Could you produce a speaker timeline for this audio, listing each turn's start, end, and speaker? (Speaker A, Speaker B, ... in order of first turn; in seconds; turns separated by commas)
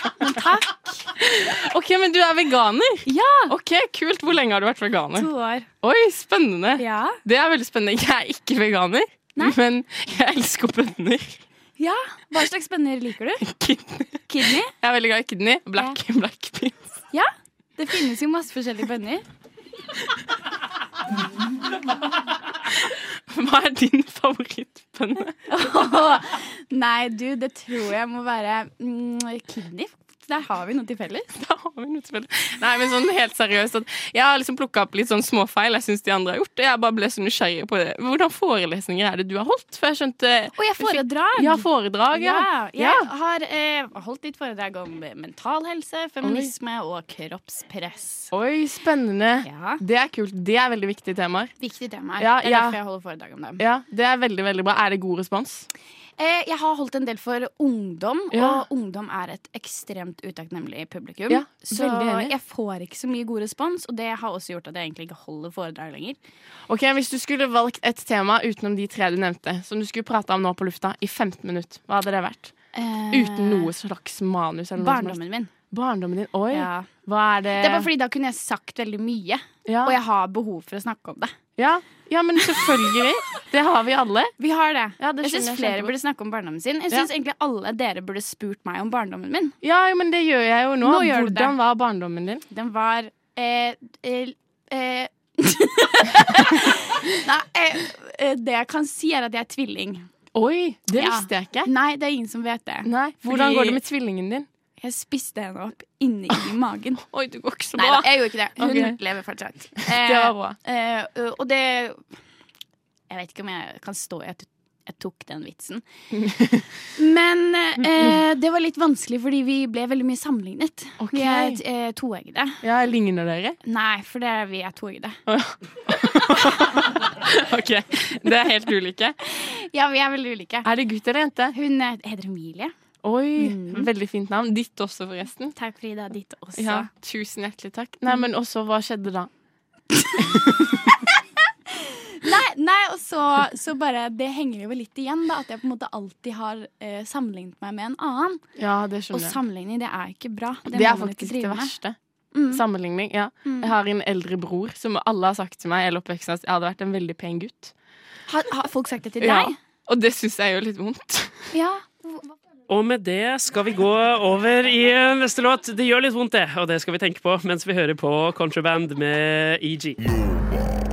Speaker A: 0.2-1.1, Speaker B: 1.3-5.3, Speaker A: 3.1-3.5, Speaker A: 5.1-5.7, Speaker B: 5.8-11.4, Speaker A: 6.8-7.2, Speaker A: 11.8-13.5, Speaker B: 13.4-16.9, Speaker A: 14.3-14.7, Speaker A: 17.1-19.2, Speaker B: 23.3-25.4, Speaker A: 25.5-31.3, Speaker B: 31.4-43.1, Speaker A: 40.5-48.3, Speaker B: 46.2-46.5, Speaker B: 48.3-51.5, Speaker A: 49.4-49.8, Speaker A: 51.6-53.6, Speaker B: 52.2-52.8, Speaker B: 53.6-55.7, Speaker A: 56.2-66.2, Speaker B: 58.3-58.6, Speaker B: 61.3-62.3, Speaker B: 66.7-72.5, Speaker A: 72.7-73.7, Speaker B: 73.1-77.9, Speaker A: 74.8-75.5, Speaker A: 76.5-76.9, Speaker A: 77.5-81.4, Speaker B: 79.7-80.0, Speaker B: 81.6-84.3, Speaker A: 82.4-82.7, Speaker A: 84.4-89.6, Speaker B: 85.0-85.9, Speaker B: 89.6-92.4, Speaker A: 90.8-91.6, Speaker A: 92.5-100.1, Speaker B: 100.3-101.7, Speaker A: 100.9-103.8, Speaker B: 102.8-104.5, Speaker A: 104.8-107.0, Speaker B: 107.1-109.0, Speaker A: 107.8-112.1, Speaker B: 109.8-110.6, Speaker A: 113.1-115.8, Speaker B: 116.1-116.6, Speaker A: 117.0-122.6, Speaker B: 121.0-121.6, Speaker B: 122.6-123.6, Speaker A: 123.6-125.2, Speaker B: 125.3-129.2, Speaker A: 129.2-130.7, Speaker B: 130.7-131.5, Speaker A: 131.5-132.7, Speaker B: 133.0-135.5, Speaker A: 133.4-133.9, Speaker A: 135.5-136.9, Speaker B: 136.6-139.3, Speaker A: 141.9-148.5, Speaker B: 148.6-149.4, Speaker A: 149.1-151.7, Speaker B: 150.7-152.0, Speaker A: 152.3-152.7, Speaker B: 152.5-157.7, Speaker A: 153.4-153.7, Speaker A: 158.3-159.6, Speaker B: 159.2-161.4, Speaker A: 161.5-162.3, Speaker C: 162.7-170.0